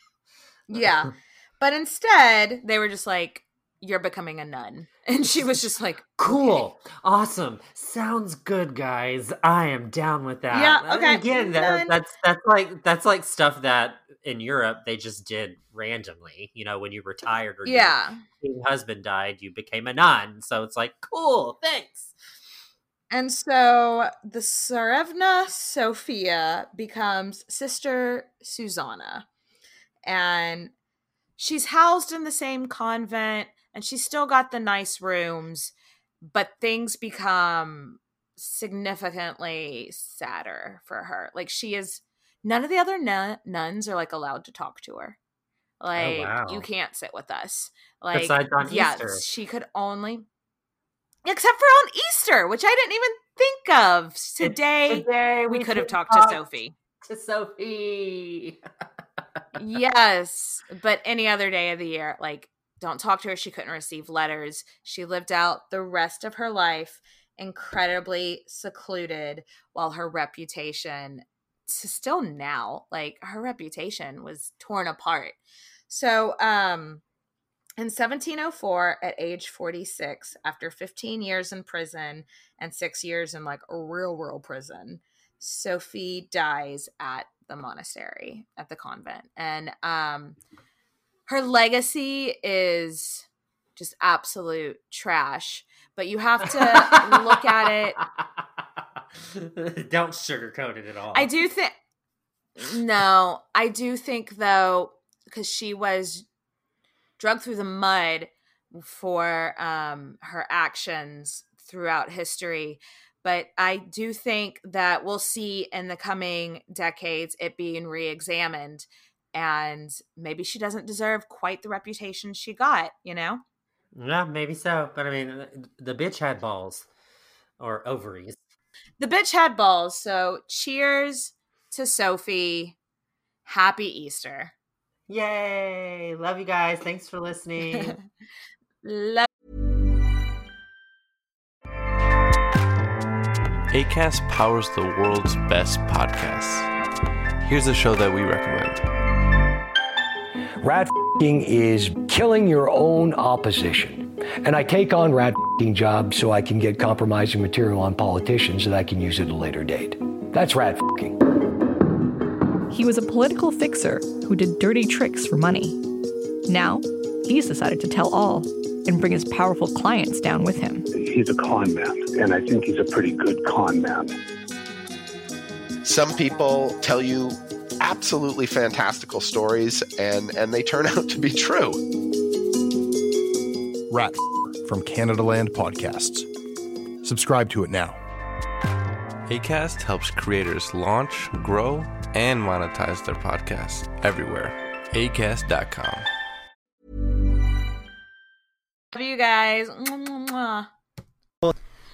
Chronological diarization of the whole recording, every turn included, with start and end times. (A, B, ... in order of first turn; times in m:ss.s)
0:00.7-0:06.6 A
0:06.2-0:22.1 B
0:10.5-0:11.9 A
0:17.6-0:18.2 A
0:23.1-0:29.3 A
0:30.0-0:30.7 A
0:31.4-0:45.2 A
0:45.8-0:50.3 A
0:46.0-0:46.6 B
0:48.1-0:49.2 B
0:51.2-0:56.7 A
0:54.4-0:56.4 B
0:57.0-0:58.6 B
0:59.6-1:15.4 A
1:15.9-1:17.0 A
1:17.8-1:30.4 A
1:31.3-1:38.0 A
1:36.5-1:38.2 B
1:39.3-1:41.3 B
1:41.1-1:41.7 A
1:42.6-1:46.3 A
1:47.2-2:03.4 A
2:04.0-2:06.9 B
2:07.6-2:08.4 B
2:09.0-2:12.8 A
2:13.4-2:14.5 A
2:15.1-2:18.0 B
2:18.8-2:19.3 A
2:23.7-2:26.7 C
2:27.4-2:28.8 C
2:30.6-2:41.2 D
2:42.7-2:45.8 E
2:46.5-2:50.9 E
2:50.9-2:54.2 F
2:55.8-3:01.8 G
3:03.9-3:06.3 H
3:07.0-3:08.0 H
3:09.3-3:16.1 C
3:18.9-3:20.7 A